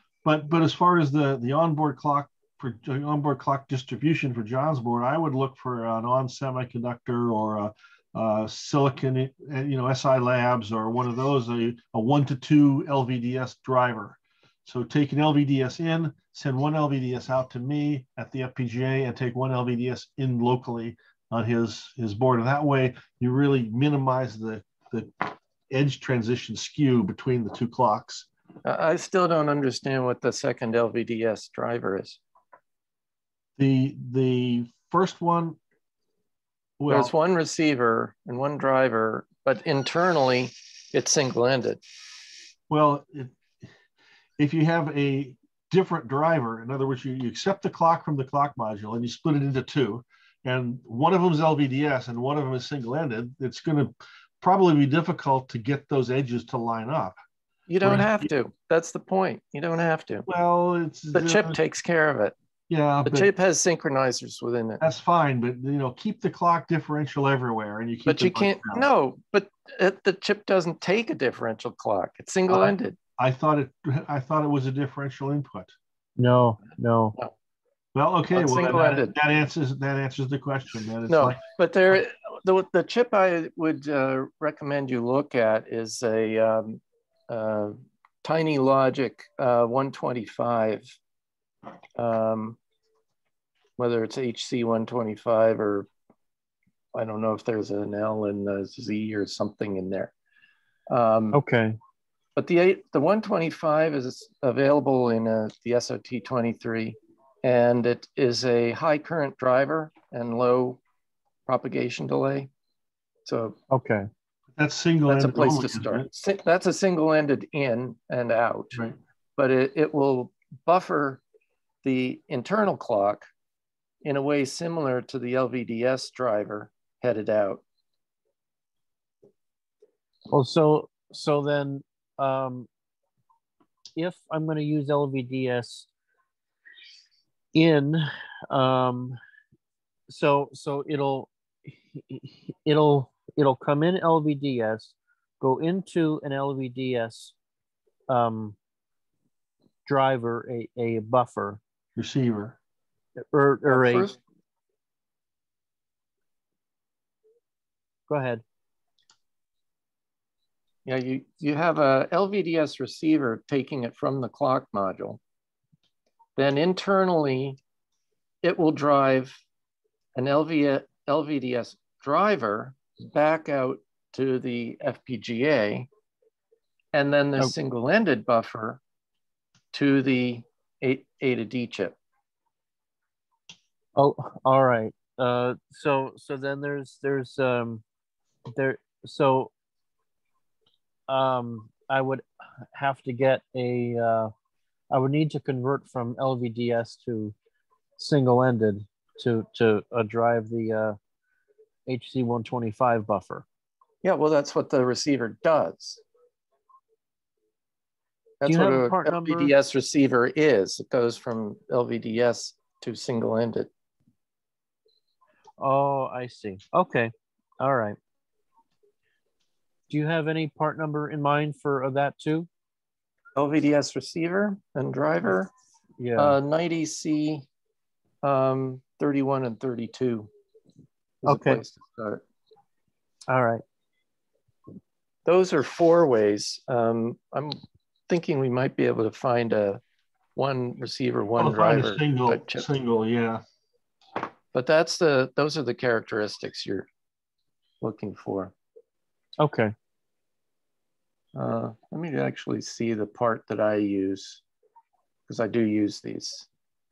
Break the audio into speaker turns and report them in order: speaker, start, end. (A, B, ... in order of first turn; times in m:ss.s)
0:00.2-0:28.2 A
0:28.6-0:32.2 B
0:33.6-0:35.6 A
0:36.8-0:37.1 A
0:36.9-0:41.8 B
0:42.7-0:43.3 A
0:44.4-0:57.2 A
0:57.7-1:00.3 B
0:57.8-0:58.3 A
1:00.3-1:01.6 A
1:01.1-1:02.3 B
1:02.7-1:03.3 A
1:03.0-1:04.8 B
1:04.8-1:08.9 A
1:08.0-1:13.0 B
1:12.5-1:15.7 A
1:16.2-1:17.2 C
1:16.7-1:17.3 B
1:17.9-1:21.4 A
1:18.3-1:19.2 B
1:21.1-1:31.0 B
1:32.0-1:32.6 B
1:33.8-1:35.9 B
1:36.9-1:40.1 B
1:40.9-1:41.4 B
1:41.3-1:41.8 C
1:42.4-1:50.8 B
1:51.4-1:52.5 B
1:53.2-1:53.6 B
1:53.7-1:54.1 C
1:54.6-1:56.1 A
1:55.1-1:58.8 B
1:59.4-2:01.2 B
2:01.8-2:03.3 B
2:04.0-2:07.6 B
2:10.3-2:12.7 C
2:14.0-2:15.9 C
2:17.5-2:19.2 C
2:20.1-2:27.3 C
2:28.1-2:28.6 C
2:29.8-2:31.6 C
2:32.0-2:32.6 A
2:33.2-2:34.2 C
2:33.7-2:34.2 B
2:38.1-2:38.4 C
2:40.8-2:45.2 B
2:46.4-2:47.6 B
2:48.4-2:49.4 B
2:50.1-2:55.9 B
2:56.9-2:58.8 B
2:59.7-3:02.0 B
3:04.0-3:07.8 C
3:08.5-3:09.5 C
3:11.1-3:14.3 C
3:14.9-3:17.3 C
3:18.0-3:21.0 C
3:21.8-3:23.4 C
3:24.0-3:26.0 B
3:28.4-3:33.7 B
3:28.4-3:29.5 C
3:35.6-3:38.0 C
3:39.9-3:42.5 C
3:43.4-3:45.5 B
3:46.0-3:46.4 C
3:46.2-3:47.4 B
3:48.2-3:50.3 B
3:51.2-3:52.2 B
3:51.2-3:51.6 C
3:53.3-3:53.6 C
3:55.2-3:59.8 B
4:00.4-4:02.7 B
4:01.4-4:03.4 A
4:04.5-4:06.9 B
4:07.8-4:08.5 B
4:09.4-4:09.7 C
4:11.3-4:14.4 B
4:15.3-4:16.5 B